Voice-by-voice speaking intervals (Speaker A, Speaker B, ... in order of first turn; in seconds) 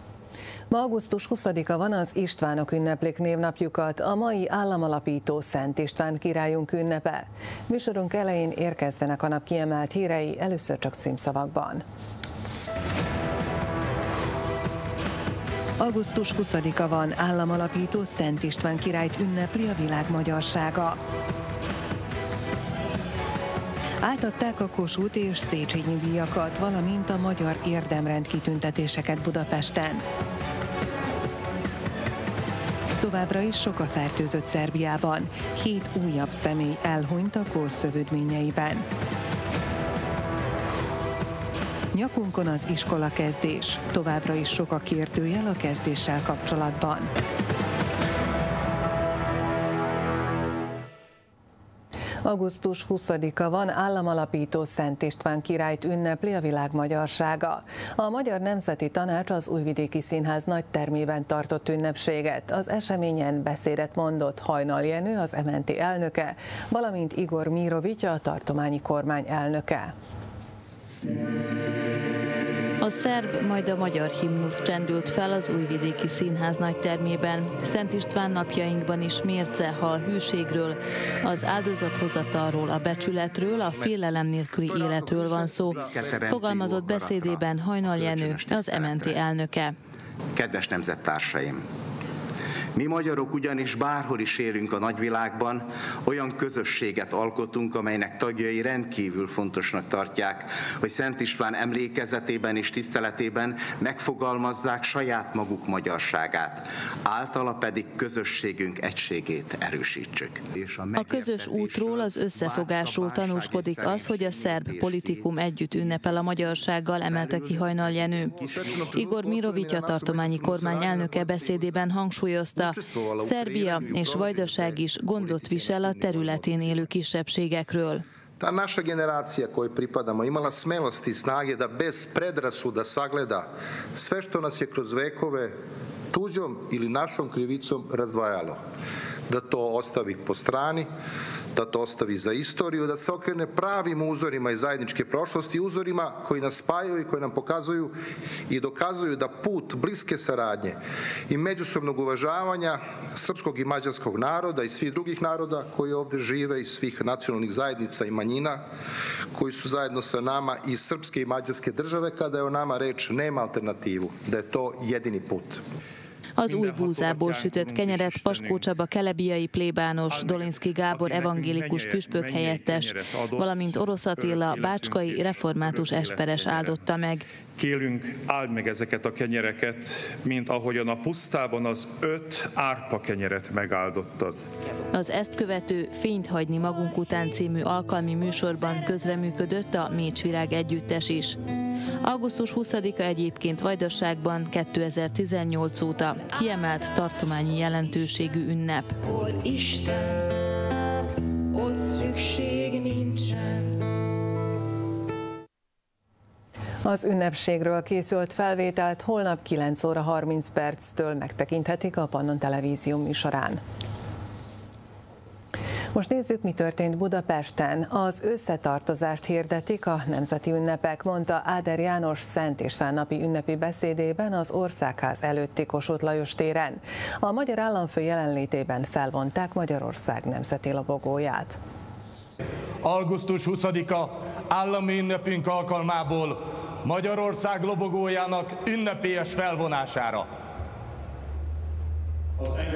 Speaker A: 0.7-11.8, 15.8-21.0, 24.0-30.1, 33.0-38.9, 41.9-47.1, 52.2-69.9, 206.8-213.6, 215.9-231.6
Speaker B: 72.8-89.8, 111.0-118.3, 118.9-128.0, 166.4-177.2, 184.9-191.4, 192.0-199.0
Speaker C: 83.7-84.0, 84.6-86.4, 117.9-121.8, 122.6-126.9, 128.4-135.6, 136.1-138.6, 139.3-140.9, 141.5-147.9, 148.5-150.8, 151.3-158.6, 159.3-165.6
Speaker D: 85.7-89.2, 90.3-91.7, 92.8-115.3
Speaker E: 166.5-168.7, 170.1-176.8, 177.6-184.5
Speaker F: 232.8-240.3